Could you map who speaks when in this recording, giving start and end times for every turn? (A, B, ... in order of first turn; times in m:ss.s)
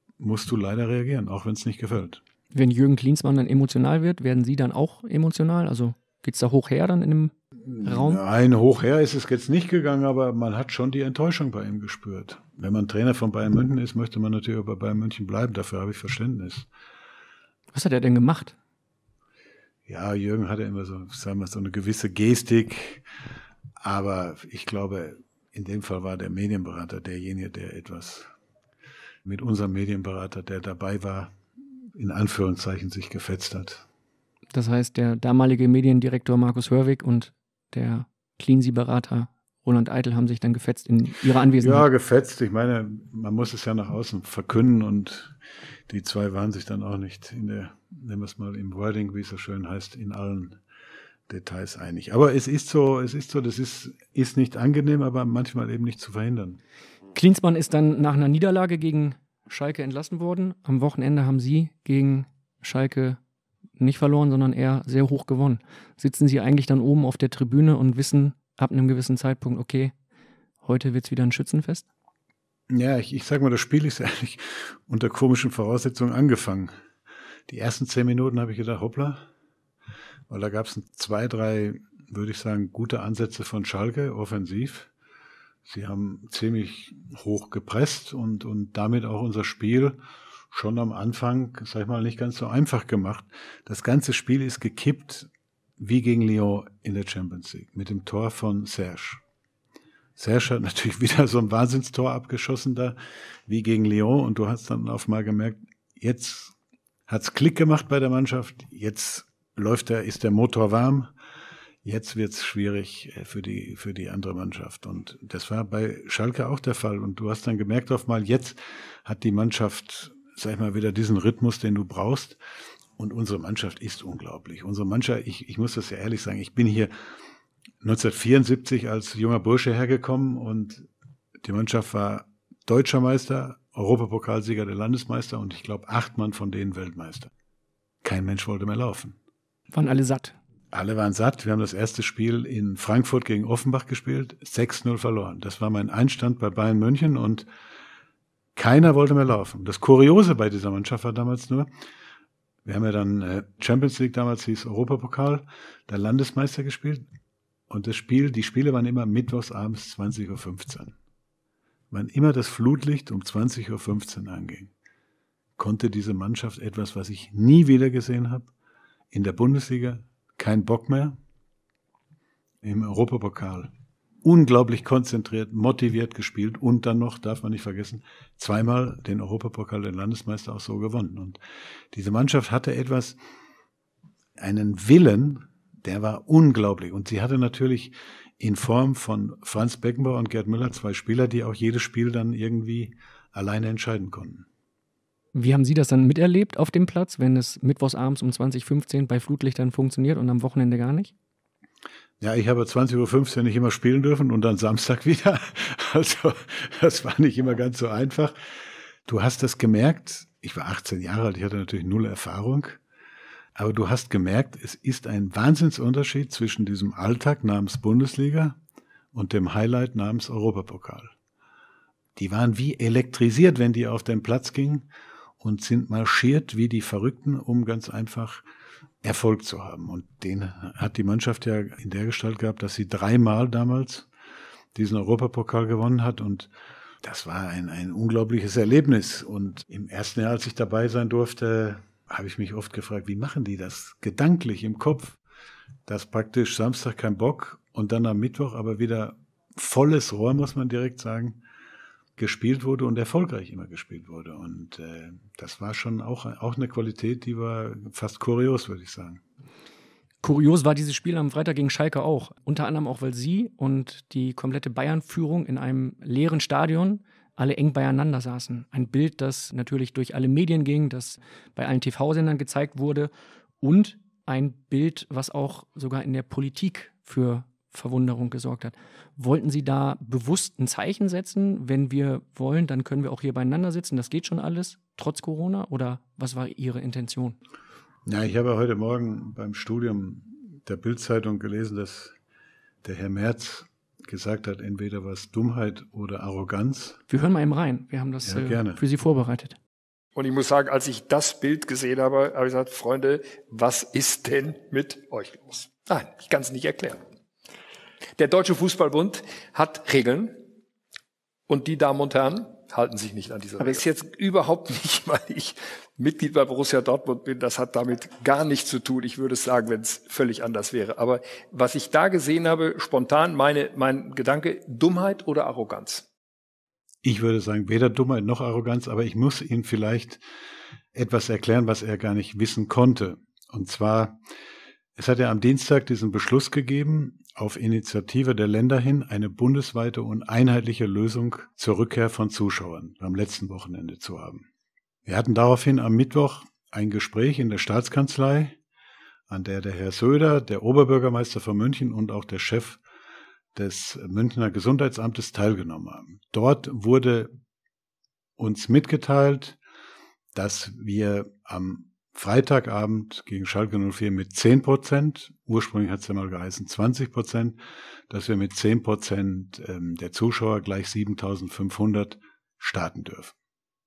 0:00.2-0:02.2 A
0:02.5-0:08.2 B
0:07.7-0:16.7 A
0:17.7-0:18.6 B
0:19.9-0:23.0 A
0:23.8-0:28.3 A
0:29.2-0:31.3 A
0:32.0-0:33.8 A
0:34.5-0:41.9 B
0:41.6-0:45.4 A
0:45.9-0:50.6 A
0:51.3-0:56.6 A
0:57.1-1:03.2 B
1:03.8-1:09.9 B
1:10.6-1:11.9 B
1:12.7-1:16.7 A
1:17.5-1:19.3 A
1:20.3-1:24.9 A
1:25.7-1:30.0 A
1:30.5-1:39.2 A
1:40.2-1:46.5 A
1:47.1-1:51.1 A
1:51.8-2:02.4 A
2:03.0-2:06.9 A
2:07.8-2:10.9 A
2:11.4-2:17.3 A
2:18.0-2:19.2 A
2:19.7-2:20.4 B
2:20.7-2:27.5 A
2:28.6-2:31.7 A
2:32.6-2:37.1 A
2:37.7-2:41.0 A
2:41.9-2:44.7 A
2:45.6-2:48.5 A
2:49.1-2:51.2 A
2:52.6-2:53.7 A
2:54.2-3:01.4 A
3:01.9-3:03.2 A
3:04.4-3:14.5 A
3:15.3-3:21.1 B
3:22.2-3:28.4 A
3:29.1-3:32.8 A
3:33.6-3:38.6 A
3:39.1-3:41.1 A
3:42.2-3:44.9 A
3:45.4-3:48.4 A
3:49.0-3:54.1 A
3:54.8-3:56.5 A
3:57.0-4:05.2 A
4:05.9-4:11.4 A
4:12.2-4:19.2 A
4:20.2-4:33.1 B
4:33.6-4:47.4 B
4:48.1-4:52.2 A
4:52.8-4:57.0 A
4:57.1-4:59.6 B
4:58.2-4:58.8 A
5:00.2-5:07.0 C
5:08.2-5:10.4 C
5:11.5-5:26.1 C
5:27.0-5:30.2 A
5:31.0-5:34.2 A
5:35.0-5:44.4 A
5:45.1-5:48.6 A
5:49.3-5:52.8 A
5:53.6-5:57.4 A
5:58.4-5:59.6 A
6:00.3-6:07.6 A
6:08.1-6:13.3 A